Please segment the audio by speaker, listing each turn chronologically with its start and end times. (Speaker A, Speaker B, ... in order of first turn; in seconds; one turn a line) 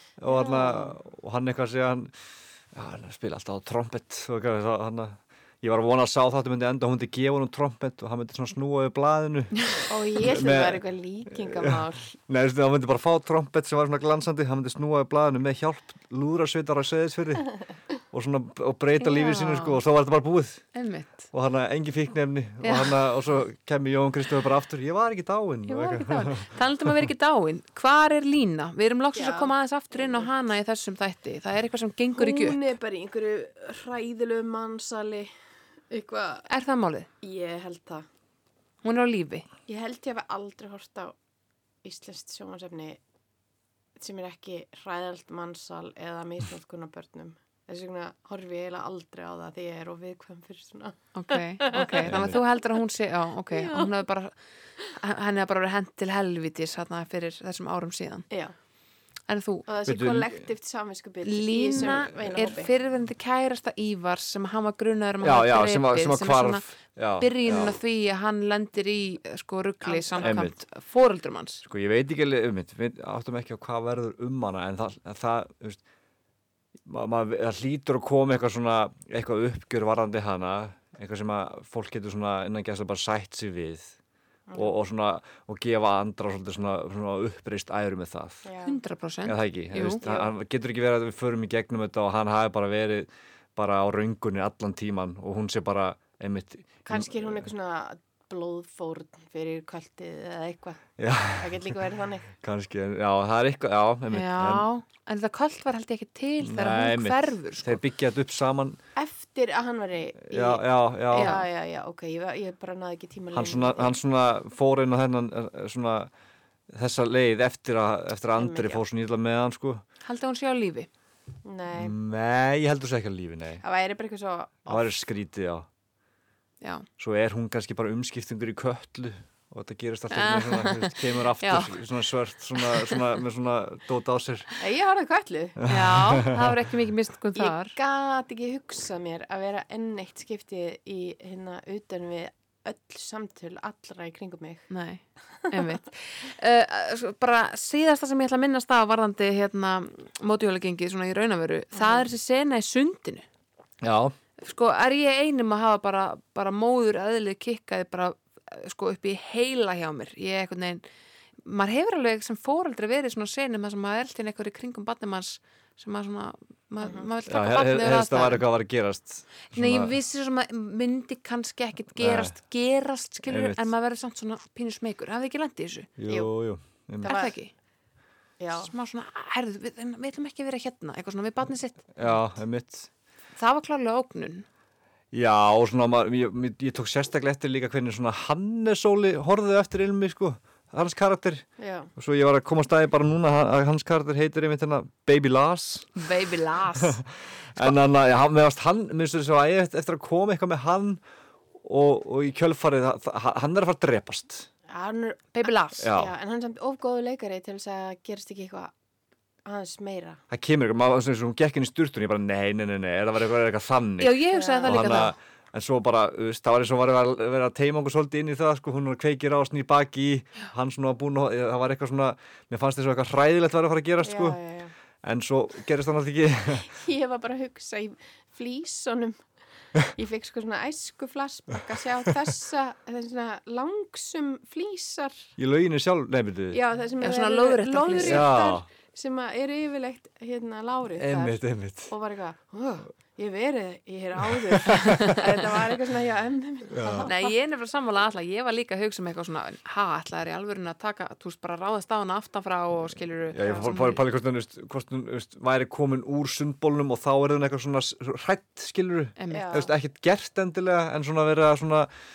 Speaker A: 0.2-2.1
Speaker B: 0.3-1.0
Speaker A: 2.7-17.5
Speaker B: 9.9-12.2
Speaker A: 18.1-20.7
Speaker C: 19.0-19.8
Speaker C: 20.8-21.3
Speaker A: 21.3-26.5
Speaker C: 22.6-23.0
Speaker C: 25.8-32.7
Speaker B: 29.1-30.3
Speaker B: 32.2-35.3
Speaker B: 35.9-36.5
Speaker C: 36.5-37.1
Speaker B: 37.2-38.1
Speaker C: 38.8-39.5
Speaker B: 39.7-41.1
Speaker B: 41.8-43.0
Speaker B: 44.0-52.4
Speaker C: 51.1-54.4
Speaker A: 52.1-52.4
Speaker B: 53.5-53.9
Speaker C: 54.9-58.3
Speaker C: 59.3-59.6
Speaker B: 59.7-62.7
Speaker A: 59.9-60.4
Speaker C: 61.2-66.7
Speaker A: 65.2-67.8
Speaker C: 67.2-71.6
Speaker B: 69.8-70.4
Speaker A: 70.2-70.6
Speaker A: 71.6-75.8
Speaker A: 76.8-84.0
Speaker B: 84.5-84.8
Speaker A: 84.5-88.5
Speaker B: 88.4-88.8
Speaker C: 88.6-90.0
Speaker A: 89.2-97.5
Speaker B: 90.0-90.3
Speaker B: 96.8-102.3
Speaker A: 101.0-101.8
Speaker A: 102.4-104.7
Speaker C: 104.1-107.8
Speaker A: 106.4-108.8
Speaker B: 109.0-114.0
Speaker A: 110.3-111.3
Speaker C: 111.1-111.4
Speaker A: 113.3-116.1
Speaker A: 116.7-119.8
Speaker B: 118.4-118.8
Speaker C: 120.0-120.9
Speaker B: 121.5-122.0
Speaker A: 121.8-123.6
Speaker B: 123.6-125.0
Speaker A: 124.7-125.7
Speaker C: 126.6-126.9
Speaker A: 127.0-134.5
Speaker C: 130.1-131.8
Speaker B: 134.6-135.6
Speaker A: 135.6-136.4
Speaker C: 135.7-137.8
Speaker B: 137.4-144.7
Speaker C: 144.7-153.2
Speaker B: 145.4-145.7
Speaker B: 151.8-152.1
Speaker A: 153.8-154.2
Speaker C: 154.4-160.8
Speaker C: 161.4-168.5
Speaker B: 166.8-167.1
Speaker A: 167.3-169.9
Speaker C: 169.5-175.9
Speaker A: 172.0-172.3
Speaker A: 173.2-173.7
Speaker A: 176.0-177.2
Speaker B: 177.0-177.3
Speaker C: 177.0-177.5
Speaker B: 178.4-178.7
Speaker C: 178.6-182.2
Speaker A: 181.9-182.9
Speaker C: 183.4-184.5
Speaker A: 185.1-191.4
Speaker B: 191.6-191.9
Speaker A: 192.0-196.0
Speaker C: 196.0-197.0
Speaker A: 196.7-197.0
Speaker A: 197.5-201.0
Speaker A: 201.6-204.5
Speaker B: 204.7-208.7
Speaker C: 205.3-205.8
Speaker A: 205.8-206.1
Speaker B: 209.4-210.2
Speaker A: 210.3-224.4
Speaker C: 214.0-215.1
Speaker B: 214.3-215.0
Speaker B: 224.0-224.7
Speaker A: 225.0-226.7
Speaker B: 226.6-229.2
Speaker B: 229.8-235.3
Speaker A: 235.4-236.6
Speaker B: 236.5-247.3
Speaker C: 237.0-238.3
Speaker A: 238.0-238.7
Speaker A: 241.0-241.9
Speaker A: 244.3-245.4
Speaker A: 246.7-247.1
Speaker C: 247.1-254.0
Speaker A: 253.3-261.9
Speaker C: 259.2-259.6
Speaker B: 259.3-259.7